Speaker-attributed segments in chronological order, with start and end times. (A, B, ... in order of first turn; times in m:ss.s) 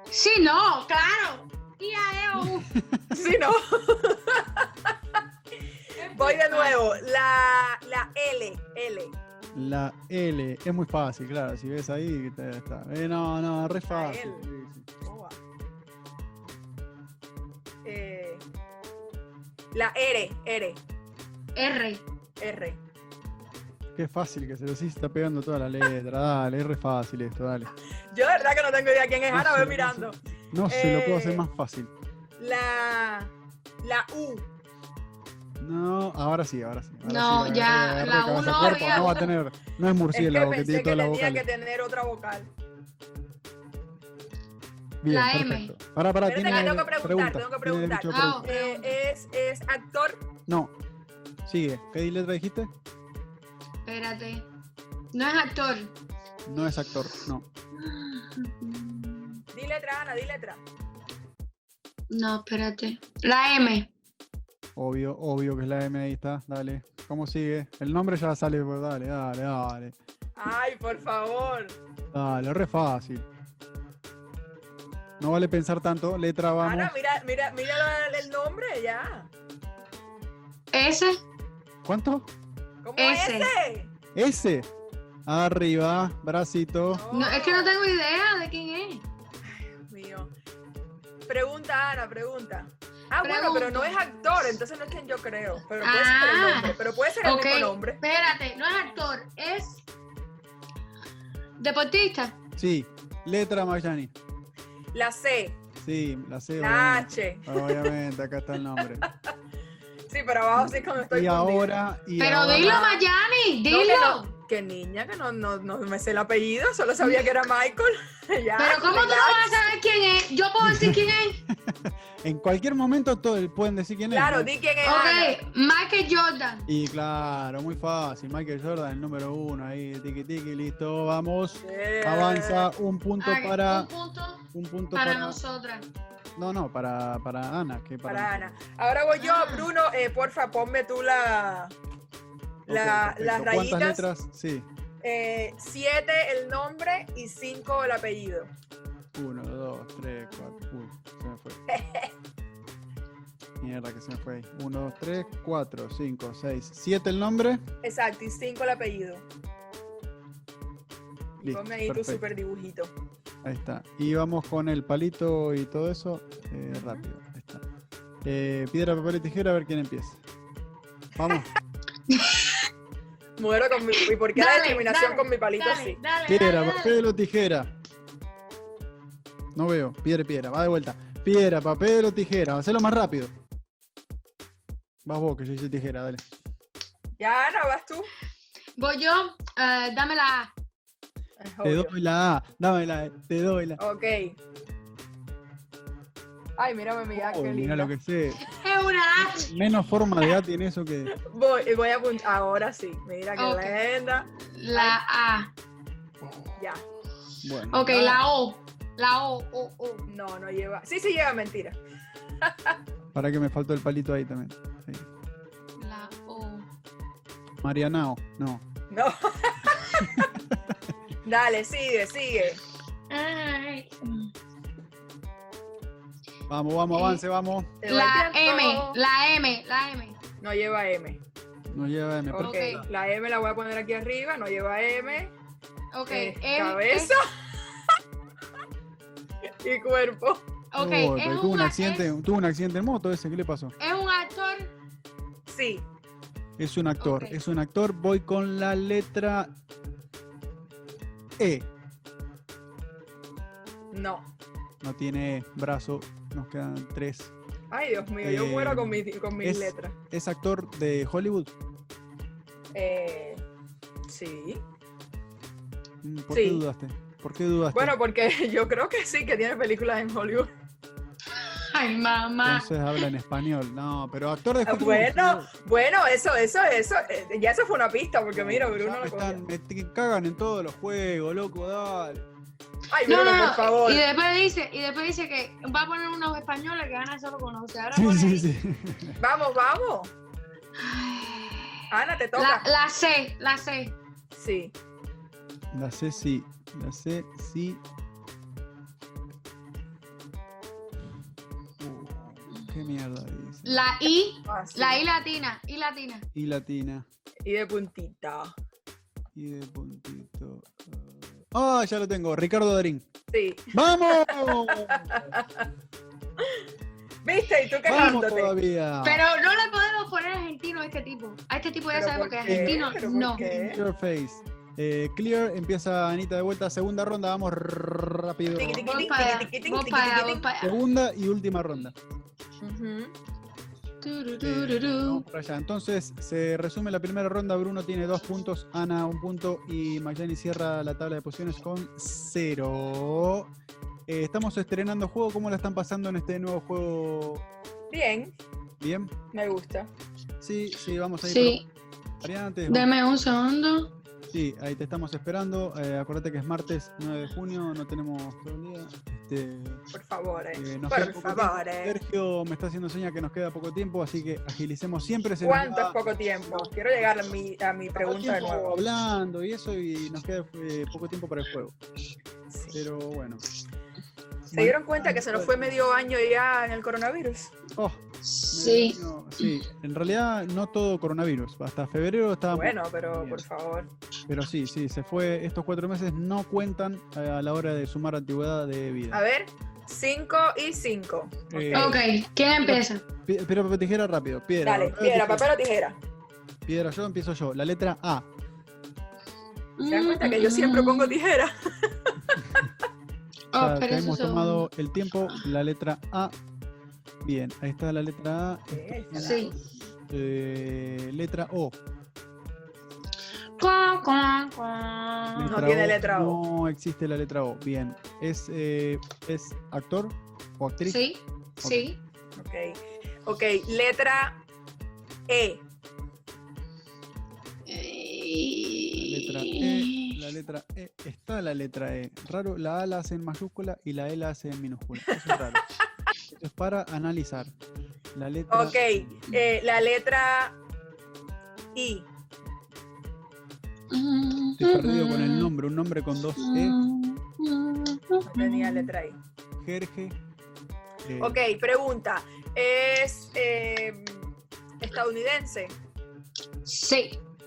0:00.1-0:02.7 A
0:02.4-0:03.2 B
0:03.1-0:04.7 C
0:06.0-0:07.0 A
0:06.1-0:09.2 C
0:09.5-0:14.9 B
0:13.9-0:14.4 C
0:15.0-0:15.4 C
0:17.8-0:18.4 C
0:19.7-0:20.8 C
0:21.6-0:22.0 A
0:22.4-0:22.8 C
0:23.9-0:27.7 B
0:28.1-0:30.2 C
0:29.3-0:31.9 B
0:30.7-0:31.4 C
0:32.4-0:33.3 C
0:33.8-0:34.4 C
0:35.6-0:41.4 B
0:37.0-0:39.3 A
0:38.7-0:39.1 C
0:40.1-0:42.5 C
0:45.0-0:48.4 B
0:45.1-0:45.7 A
0:46.2-0:50.2 C
0:48.1-0:48.9 A
0:50.5-0:50.7 B
0:51.4-0:52.7 B
0:53.8-0:54.5 A
0:55.1-0:55.9 A
0:56.4-0:57.5 B
0:57.7-0:59.4 A
0:59.5-1:00.6 C
1:02.1-1:03.9 A
1:04.8-1:10.0 B
1:10.4-1:11.8 C
1:12.1-1:13.2 B
1:15.2-1:16.9 B
1:16.6-1:19.3 C
1:20.7-1:21.2 A
1:21.8-1:22.3 B
1:22.8-1:23.9 C
1:23.0-1:23.5 A
1:24.1-1:24.7 B
1:25.3-1:27.0 B
1:26.9-1:27.8 C
1:27.1-1:29.0 A
1:29.4-1:30.3 C
1:31.3-1:38.0 C
1:33.2-1:34.0 A
1:35.8-1:39.8 A
1:41.6-1:42.4 A
1:42.6-1:44.1 B
1:44.9-1:45.6 C
1:45.8-1:49.0 B
1:46.6-1:47.9 C
1:48.8-1:49.3 C
1:50.1-1:51.8 C
1:50.6-1:52.8 B
1:52.2-1:54.3 A
1:52.5-1:53.0 C
1:53.7-1:59.6 C
1:58.6-2:01.4 A
2:00.6-2:04.5 B
2:04.1-2:05.4 C
2:04.8-2:06.7 A
2:06.7-2:13.9 B
2:11.6-2:12.7 C
2:13.2-2:15.9 A
2:14.5-2:15.4 B
2:16.4-2:18.5 B
2:18.0-2:21.7 C
2:19.2-2:19.7 A
2:22.7-2:24.7 B
2:22.7-2:24.0 C
2:25.0-2:28.5 C
2:29.1-2:31.6 B
2:31.7-2:32.1 C
2:33.6-2:37.6 B
2:37.8-2:39.2 C
2:41.4-2:42.9 C
2:41.4-2:42.2 B
2:43.4-2:47.6 B
2:46.7-2:47.0 C
2:48.2-2:50.2 B
2:51.2-2:51.5 B
2:52.1-2:52.6 A
2:53.4-2:56.0 C
2:53.9-2:57.0 A
2:56.3-2:57.7 B
2:59.5-3:03.3 B
3:05.0-3:06.2 B
3:07.2-3:08.1 C
3:08.8-3:10.5 A
3:11.4-3:11.9 C
3:11.6-3:13.8 B
3:13.8-3:14.4 C
3:16.6-3:17.9 C
3:17.1-3:18.5 B
3:18.4-3:19.5 A
3:19.2-3:21.1 B
3:21.1-3:25.0 C
3:23.4-3:23.8 A
3:24.4-3:25.5 A
3:26.2-3:26.6 B
3:26.6-3:26.8 C
3:27.4-3:28.2 B
3:27.7-3:30.0 A
3:30.1-3:31.8 C
3:32.4-3:32.8 C
3:33.1-3:35.1 B
3:35.8-3:36.6 A
3:37.6-3:38.6 B
3:38.9-3:40.3 C
3:40.1-3:40.4 B
3:41.2-3:42.6 C
3:43.1-3:44.3 A
3:46.5-3:47.7 B
3:46.9-3:47.2 A
3:47.8-3:49.0 C
3:47.9-3:50.2 A
3:50.4-3:51.2 C
3:51.7-3:52.9 B
3:52.3-3:55.3 C
3:52.4-3:52.8 A
3:55.9-3:57.1 A
3:56.1-3:57.2 C
3:59.6-4:00.4 C
4:00.7-4:02.1 A
4:00.8-4:03.7 B
4:03.8-4:04.7 A
4:05.5-4:05.8 C
4:06.6-4:09.5 B
4:07.0-4:07.4 A
4:11.4-4:11.7 B
4:13.9-4:14.3 C
4:14.8-4:17.3 B
4:17.7-4:19.9 C
4:18.2-4:21.5 B
4:22.7-4:23.4 C
4:24.1-4:24.6 C
4:26.0-4:27.9 B
4:26.3-4:26.6 C
4:27.7-4:30.5 C
4:31.4-4:33.1 A
4:32.4-4:35.5 B
4:34.6-4:39.4 C
4:38.3-4:42.3 B
4:42.9-4:44.0 C
4:43.1-4:48.5 A
4:47.9-4:49.2 B
4:49.2-4:50.1 C
4:50.8-4:53.9 A
4:51.9-4:52.6 C
4:54.3-4:54.7 C
4:55.7-4:57.8 B
5:01.8-5:03.8 B
5:03.6-5:06.2 A
5:04.4-5:05.0 C
5:06.3-5:07.0 B
5:07.4-5:08.5 C
5:09.3-5:13.1 B
5:13.3-5:15.7 C
5:13.7-5:15.3 B
5:16.4-5:16.6 C
5:17.2-5:18.5 C
5:17.8-5:19.2 B
5:19.0-5:23.4 A
5:21.9-5:23.8 C
5:22.4-5:29.1 B
5:28.5-5:30.5 C
5:28.8-5:30.8 A
5:30.6-5:31.9 B
5:32.6-5:33.1 C
5:34.0-5:35.2 A
5:34.4-5:43.5 B
5:44.1-5:47.4 B
5:47.9-5:48.3 C
5:48.8-5:49.1 B
5:49.3-5:49.9 C
5:50.4-5:51.6 B
5:51.2-5:51.6 A
5:52.2-5:52.9 B
5:52.7-5:53.9 A
5:54.3-5:59.8 B
5:59.9-6:02.0 C
6:00.5-6:06.7 B
6:05.4-6:08.7 C
6:07.9-6:11.7 B
6:12.5-6:12.8 C
6:12.7-6:13.4 B
6:14.5-6:15.8 B
6:14.5-6:17.5 C
6:17.8-6:23.4 B
6:18.2-6:19.5 A
6:22.5-6:23.9 C
6:24.3-6:29.2 B
6:29.1-6:32.0 C
6:31.5-6:32.0 B
6:31.7-6:33.0 A
6:32.6-6:35.5 B
6:34.6-6:36.0 C
6:36.6-6:38.3 B
6:39.8-6:41.1 A
6:39.9-6:42.7 C
6:43.5-6:44.7 A
6:43.6-6:46.3 B
6:47.2-6:49.5 B
6:48.7-6:49.6 C
6:49.2-6:49.5 A
6:50.1-6:51.8 B
6:53.6-6:55.6 A
6:55.4-7:01.0 B
6:55.4-6:56.4 C
7:00.8-7:02.0 A
7:01.6-7:01.9 B
7:02.4-7:04.4 C
7:05.3-7:05.6 C
7:07.7-7:10.2 A
7:08.9-7:15.6 B
7:15.1-7:15.6 C
7:16.3-7:17.5 B
7:18.1-7:19.2 B
7:18.5-7:20.6 C
7:21.7-7:22.1 C
7:23.9-7:25.5 A
7:24.6-7:26.8 B
7:26.4-7:28.9 A
7:28.2-7:29.2 C
7:29.6-7:30.2 B
7:31.0-7:31.4 B
7:31.2-7:34.3 C
7:34.8-7:35.8 C
7:36.6-7:37.2 A